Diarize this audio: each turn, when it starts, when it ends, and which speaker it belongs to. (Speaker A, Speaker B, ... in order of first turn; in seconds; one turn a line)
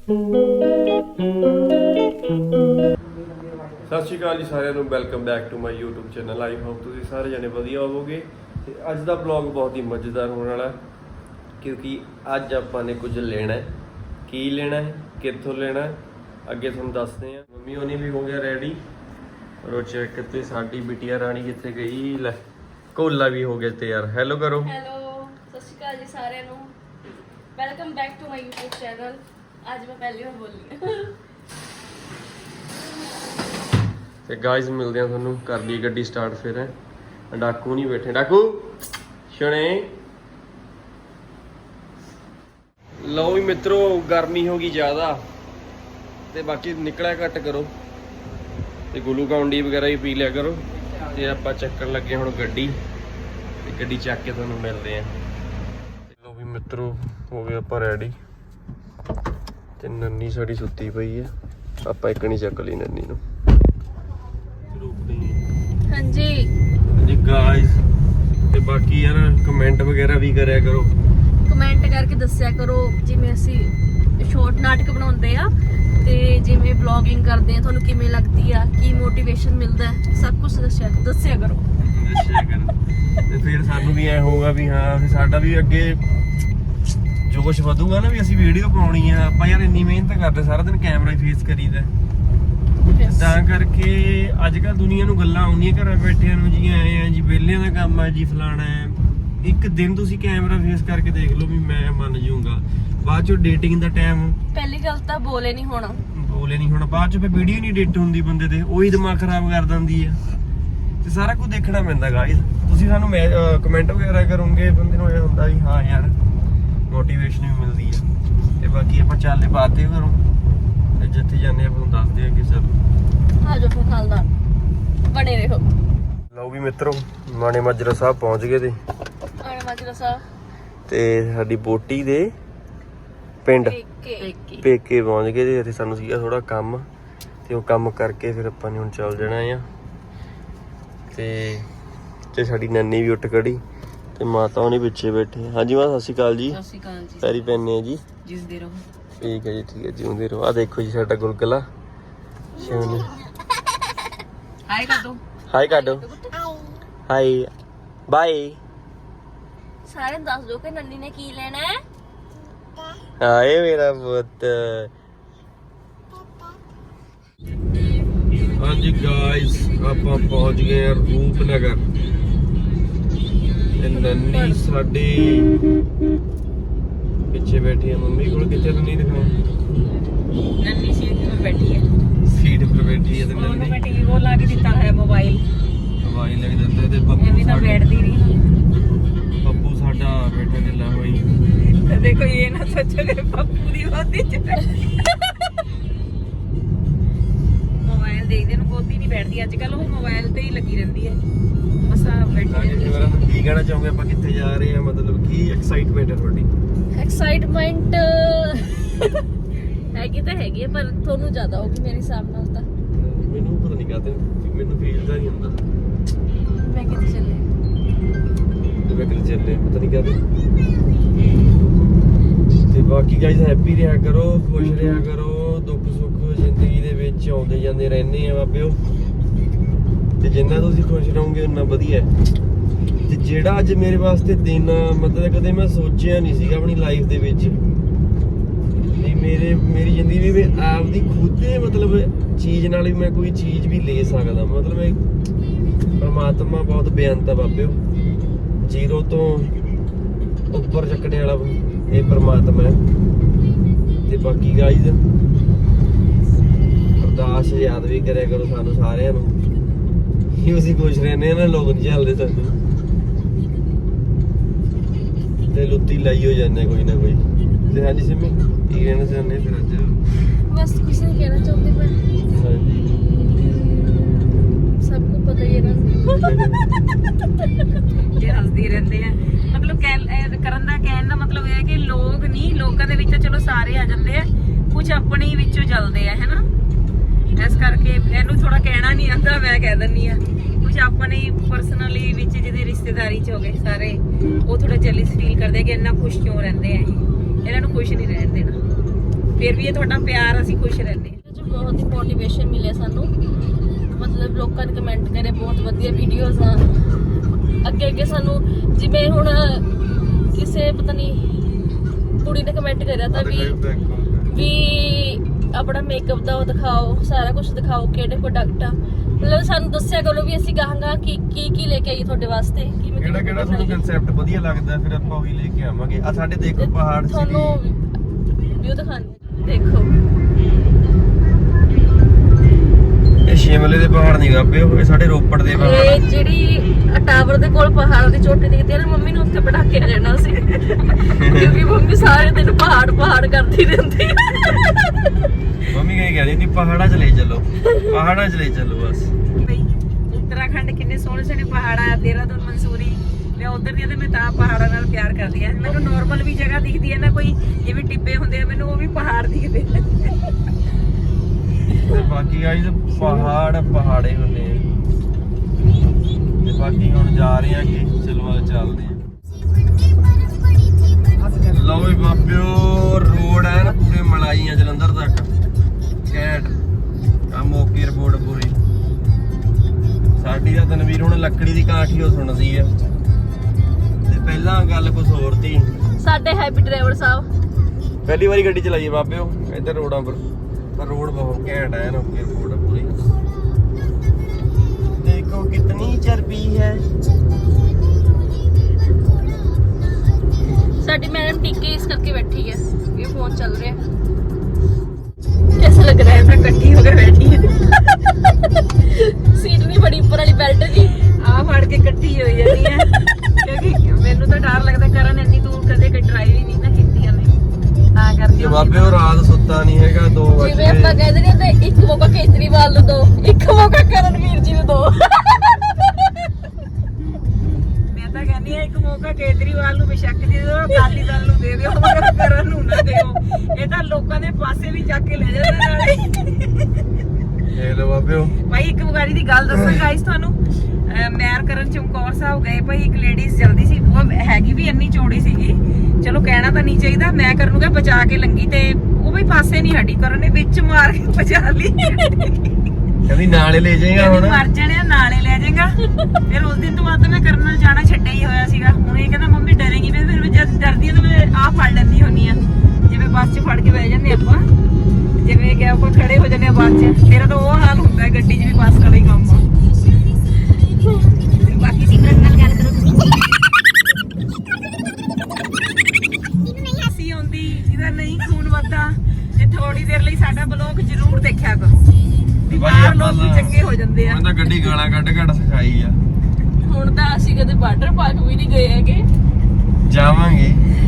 Speaker A: 3.8-10.8
Speaker A: 11.6-13.7
Speaker A: 14.3-18.8
Speaker A: 19.6-22.4
Speaker A: 22.9-24.7
Speaker B: 24.6-26.7
Speaker B: 27.5-31.1
Speaker A: 34.2-36.7
Speaker A: 37.3-38.8
Speaker A: 39.3-40.0
Speaker A: 43.0-45.2
Speaker A: 46.3-47.7
Speaker A: 48.9-52.8
Speaker A: 53.6-55.1
Speaker A: 56.1-58.1
Speaker A: 59.8-61.3
Speaker A: 61.8-63.2
Speaker A: 64.7-65.4
Speaker B: 65.9-66.5
Speaker A: 66.9-67.8
Speaker A: 68.5-70.9
Speaker B: 71.5-81.6
Speaker A: 81.8-82.8
Speaker A: 83.3-86.0
Speaker A: 87.2-91.9
Speaker B: 92.8-93.4
Speaker A: 93.1-104.4
Speaker B: 104.5-106.0
Speaker A: 106.1-110.2
Speaker A: 111.0-116.2
Speaker A: 116.9-118.0
Speaker A: 118.6-120.2
Speaker A: 121.0-122.8
Speaker B: 123.4-124.3
Speaker B: 125.1-125.7
Speaker A: 126.3-128.8
Speaker B: 129.4-130.2
Speaker A: 130.9-132.3
Speaker A: 133.4-133.8
Speaker B: 133.6-134.3
Speaker C: 134.2-134.7
Speaker A: 134.6-136.9
Speaker A: 137.4-139.7
Speaker A: 141.1-141.7
Speaker A: 142.3-143.6
Speaker A: 144.2-146.6
Speaker C: 146.5-147.4
Speaker A: 147.2-148.0
Speaker C: 148.2-148.8
Speaker A: 149.2-151.7
Speaker A: 152.6-153.1
Speaker B: 152.7-153.0
Speaker C: 154.7-155.2
Speaker A: 155.5-156.1
Speaker B: 155.6-156.2
Speaker A: 157.1-157.5
Speaker A: 158.1-158.6
Speaker B: 159.8-161.8
Speaker A: 163.2-164.9
Speaker A: 168.5-171.8
Speaker A: 173.8-175.6
Speaker A: 177.3-179.4
Speaker C: 180.6-181.9
Speaker A: 182.2-183.8
Speaker C: 183.3-185.4
Speaker A: 186.0-187.8
Speaker C: 187.2-188.4
Speaker A: 189.4-191.3
Speaker C: 191.7-195.4
Speaker C: 197.8-201.2
Speaker C: 201.9-203.2
Speaker A: 202.4-206.5
Speaker B: 206.9-208.9
Speaker B: 209.9-212.7
Speaker A: 212.9-215.6
Speaker B: 216.6-217.5
Speaker A: 218.8-220.2
Speaker A: 222.4-228.8
Speaker A: 230.2-232.1
Speaker A: 233.0-237.6
Speaker A: 238.9-245.0
Speaker A: 246.0-247.8
Speaker A: 248.6-249.5
Speaker A: 250.5-252.8
Speaker A: 254.0-255.0
Speaker A: 257.0-259.4
Speaker A: 260.3-262.6
Speaker A: 265.4-270.0
Speaker B: 270.5-272.0
Speaker A: 272.3-274.5
Speaker B: 274.8-276.3
Speaker A: 276.1-276.7
Speaker C: 278.1-286.4
Speaker C: 287.4-298.6
Speaker C: 299.4-301.2
Speaker B: 301.2-303.1
Speaker B: 303.9-306.6
Speaker B: 307.6-309.7
Speaker B: 310.3-311.4
Speaker B: 312.2-313.6
Speaker A: 313.1-314.3
Speaker B: 314.3-323.8
Speaker A: 323.0-327.6
Speaker B: 326.6-327.8
Speaker B: 328.6-329.9
Speaker A: 333.2-336.0
Speaker B: 335.5-344.9
Speaker A: 341.1-341.6
Speaker A: 345.7-349.1
Speaker C: 349.3-360.3
Speaker A: 355.6-356.2
Speaker A: 361.8-364.7
Speaker A: 366.4-369.0
Speaker A: 371.3-375.3
Speaker A: 376.1-376.6
Speaker A: 377.3-378.6
Speaker A: 380.2-382.7
Speaker A: 384.0-385.7
Speaker B: 386.0-387.3
Speaker A: 388.0-393.0
Speaker A: 394.9-396.9
Speaker B: 400.8-403.8
Speaker B: 405.5-406.6
Speaker C: 406.0-407.6
Speaker B: 408.9-411.0
Speaker C: 411.2-417.4
Speaker C: 417.9-419.0
Speaker A: 418.4-421.0
Speaker B: 420.4-425.7
Speaker A: 425.3-425.6
Speaker C: 427.9-436.8
Speaker A: 437.5-438.4
Speaker C: 438.4-452.5
Speaker A: 439.5-439.9
Speaker A: 453.1-454.4
Speaker C: 453.9-464.5
Speaker C: 465.2-469.5
Speaker C: 471.3-473.1
Speaker C: 476.8-481.9
Speaker C: 482.5-484.7
Speaker A: 482.5-486.0
Speaker B: 486.6-489.1
Speaker A: 489.9-490.6